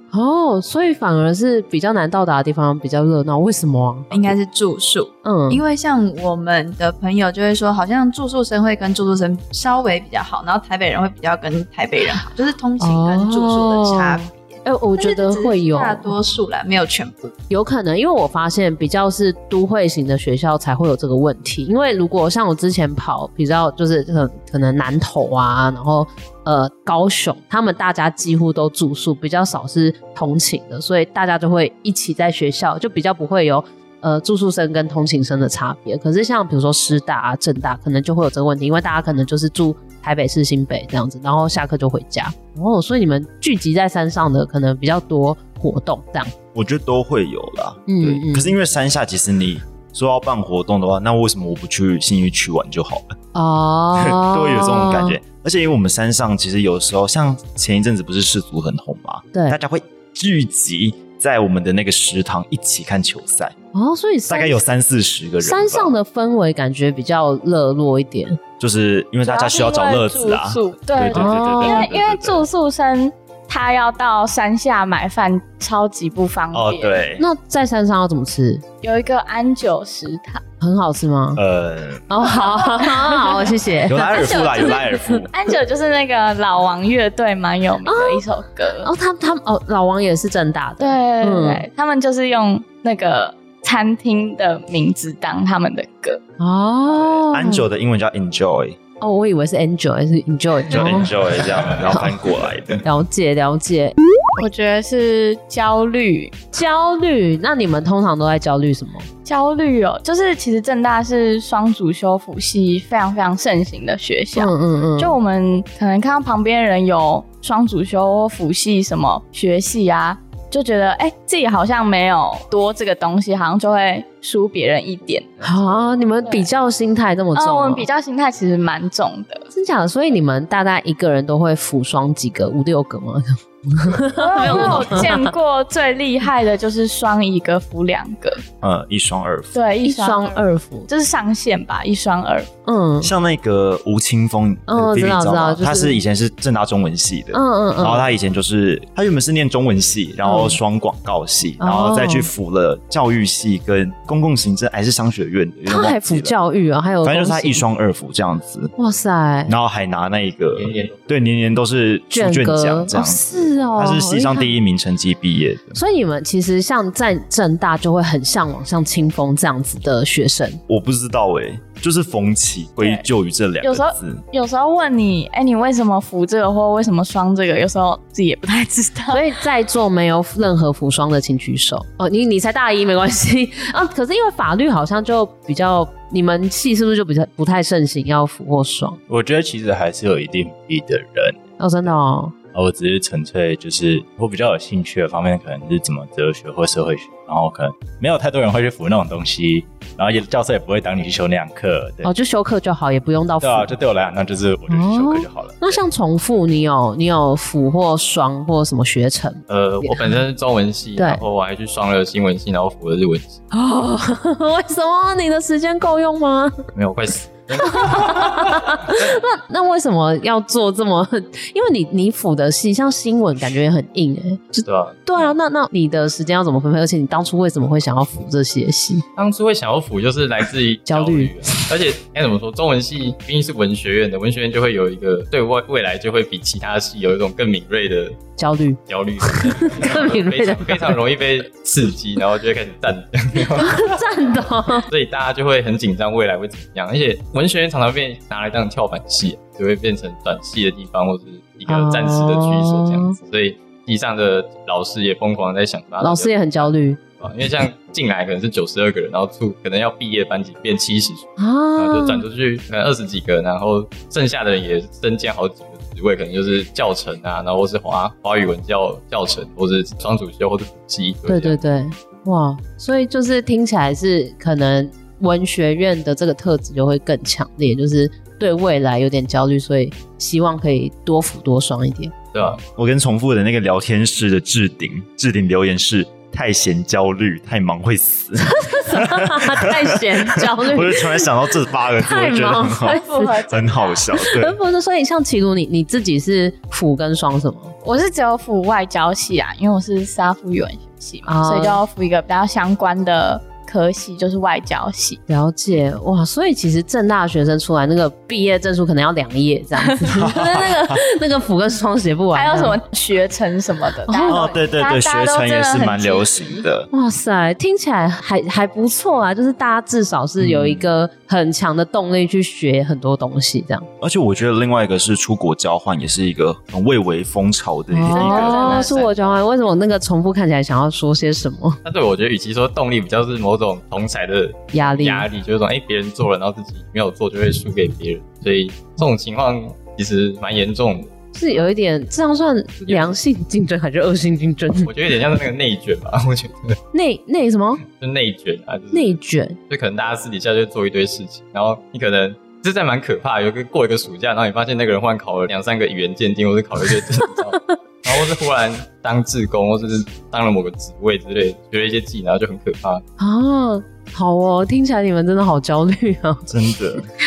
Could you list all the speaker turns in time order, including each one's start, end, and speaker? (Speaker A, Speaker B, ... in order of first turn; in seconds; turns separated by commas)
Speaker A: 0.1-4.3, Speaker B: 4.1-17.3, Speaker A: 5.2-5.6, Speaker A: 12.8-16.1, Speaker A: 17.5-46.3, Speaker C: 46.5-53.2, Speaker A: 47.9-48.5, Speaker A: 53.4-55.2, Speaker C: 54.0-63.5, Speaker A: 63.7-64.6, Speaker C: 64.3-65.9, Speaker A: 65.4-68.4, Speaker C: 68.6-72.5, Speaker D: 69.2-77.0, Speaker A: 71.1-71.9, Speaker C: 76.5-77.2, Speaker A: 77.2-78.6, Speaker D: 78.8-80.4, Speaker A: 80.6-81.4, Speaker C: 81.4-82.1, Speaker A: 82.1-84.8, Speaker D: 82.3-88.9, Speaker C: 83.9-85.3, Speaker A: 87.8-88.2, Speaker A: 88.8-91.7, Speaker D: 90.8-96.2, Speaker A: 96.4-97.7, Speaker C: 97.0-98.8, Speaker A: 99.0-101.2, Speaker C: 100.7-102.8, Speaker A: 101.9-102.2, Speaker A: 102.8-104.0, Speaker D: 104.4-106.4, Speaker A: 106.5-109.1, Speaker D: 109.2-125.6, Speaker A: 114.3-115.2, Speaker A: 125.4-127.9, Speaker D: 127.3-129.5, Speaker A: 129.5-135.3, Speaker D: 134.2-138.4, Speaker C: 138.6-139.6, Speaker D: 139.5-142.5, Speaker A: 139.8-140.9, Speaker A: 142.7-143.1, Speaker C: 143.0-156.3, Speaker A: 144.7-146.0, Speaker A: 147.3-148.1, Speaker A: 150.2-150.6, Speaker A: 151.6-152.3, Speaker A: 155.7-157.6, Speaker C: 157.0-158.7, Speaker A: 158.8-159.6, Speaker C: 159.5-165.8, Speaker E: 160.6-161.0, Speaker A: 162.1-164.6, Speaker A: 165.7-170.6, Speaker C: 170.7-174.2, Speaker D: 173.6-179.3, Speaker A: 179.1-189.0, Speaker F: 189.1-191.9, Speaker A: 191.6-192.3, Speaker F: 192.5-202.1, Speaker A: 202.0-203.7, Speaker F: 203.4-205.8, Speaker A: 204.7-210.1, Speaker E: 209.5-213.4, Speaker A: 211.0-211.2, Speaker A: 213.5-216.7, Speaker E: 216.8-219.2, Speaker A: 217.6-229.1, Speaker E: 224.7-225.3, Speaker E: 229.2-238.2, Speaker A: 230.9-231.7, Speaker A: 238.4-241.0, Speaker E: 238.9-243.9, Speaker A: 243.5-244.9, Speaker E: 244.9-271.6, Speaker A: 251.7-253.2, Speaker A: 256.0-257.0, Speaker A: 261.4-262.2, Speaker A: 271.3-282.1, Speaker E: 282.3-282.6, Speaker C: 282.8-294.6, Speaker A: 288.5-293.4, Speaker D: 292.8-294.0, Speaker A: 294.1-297.7, Speaker D: 297.8-305.2, Speaker A: 301.3-301.8, Speaker A: 305.3-312.8, Speaker D: 309.8-310.2, Speaker C: 310.1-311.0, Speaker D: 312.3-316.6, Speaker A: 314.1-314.5, Speaker C: 314.3-316.9, Speaker A: 316.9-323.9, Speaker C: 320.4-320.9, Speaker C: 324.0-328.8, Speaker A: 327.9-331.8, Speaker D: 328.1-329.1, Speaker E: 328.4-329.3, Speaker E: 331.8-341.1, Speaker A: 334.7-335.3, Speaker A: 341.3-344.9, Speaker E: 342.8-343.2, Speaker E: 344.8-346.8, Speaker A: 346.9-347.8, Speaker E: 347.9-349.2, Speaker A: 348.9-349.6, Speaker E: 349.7-363.0, Speaker A: 363.2-366.5, Speaker C: 366.5-367.1